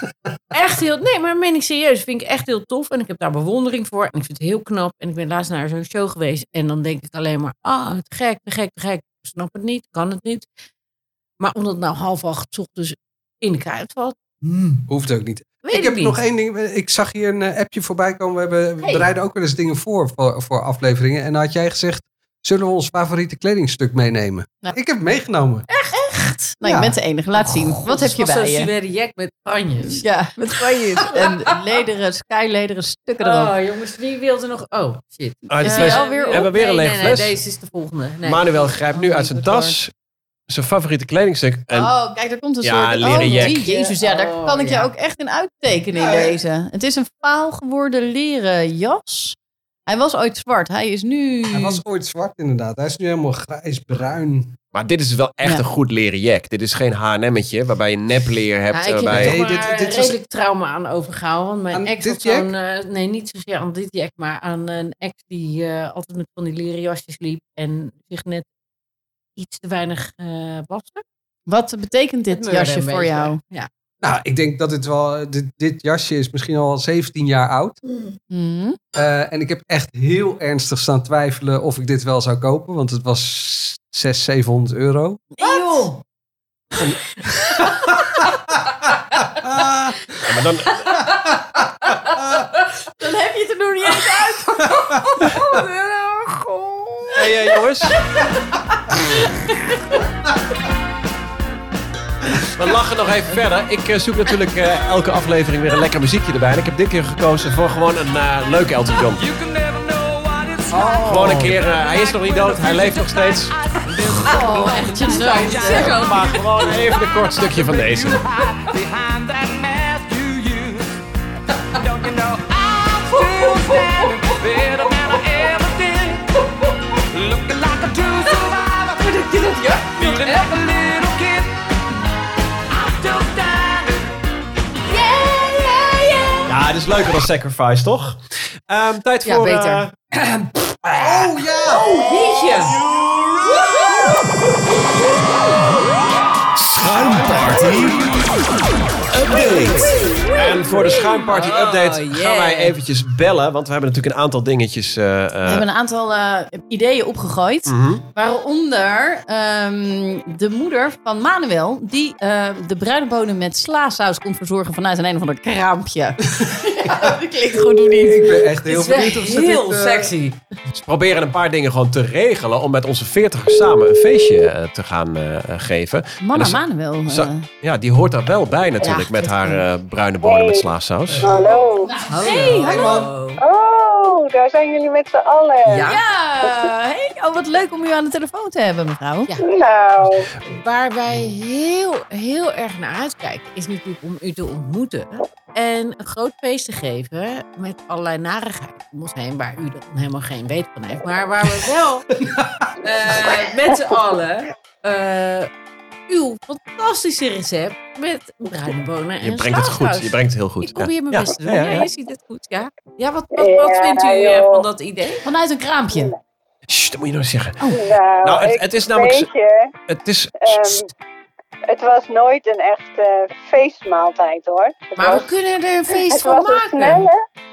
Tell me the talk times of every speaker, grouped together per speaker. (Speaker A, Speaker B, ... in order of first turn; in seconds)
Speaker A: 0.5-10.5, 11.4-14.9, 15.6-16.2, 18.8-19.1, 25.7-26.6, 27.4-31.4, 33.2-38.7, 43.0-44.9, 58.7-68.5, 69.4-71.0, 72.3-73.7, 85.4-85.9, 91.9-92.4, 93.9-97.4, 114.1-117.0, 123.1-125.0, 128.3-130.6, 134.9-136.5, 139.2-142.8, 143.5-144.4, 149.3-152.8, 168.7-170.4, 182.0-183.4, 185.7-186.0, 190.4-202.1, 202.8-205.5, 206.1-215.2, 225.0-227.1
Speaker B: 14.9-25.7, 26.6-27.0, 46.0-46.4, 51.5-54.6, 59.1-60.2, 61.7-62.5, 74.0-77.8, 79.0-85.2, 87.6-88.6, 89.3-90.4, 91.0-92.5, 94.6-95.5, 110.7-111.5, 140.9-141.9, 167.9-170.1, 182.5-183.1, 202.2-202.7
Speaker C: 26.6-28.7, 29.9-33.5, 35.6-36.5, 38.9-39.8, 41.7-51.8, 71.5-73.4, 78.3-78.8, 85.4-86.0, 87.7-88.0, 93.0-94.7, 97.8-100.0, 114.2-116.0, 155.4-168.4, 176.2-177.5, 178.8-179.6, 181.8-182.8, 185.8-189.3, 215.2-216.1
Speaker D: 35.5-37.4, 38.2-39.9, 40.5-41.9, 42.6-43.6, 54.7-59.4, 90.2-91.1, 97.1-98.0, 102.5-109.2, 111.0-113.5, 115.9-118.2, 136.5-139.9, 146.6-148.3, 149.1-155.7, 157.7-158.0, 170.7-181.4, 209.2-211.9, 216.7-219.3, 219.9-220.8
Speaker E: 109.2-121.0, 121.7-126.4, 127.0-129.1, 130.0-131.6, 132.7-134.1, 142.0-144.2
Speaker F: 180.2-180.7, 181.2-182.1, 182.7-185.9, 189.4-190.3, 213.3-214.7, 215.9-216.2, 217.7-219.7, 220.4-220.9, 221.7-225.3, 225.9-227.2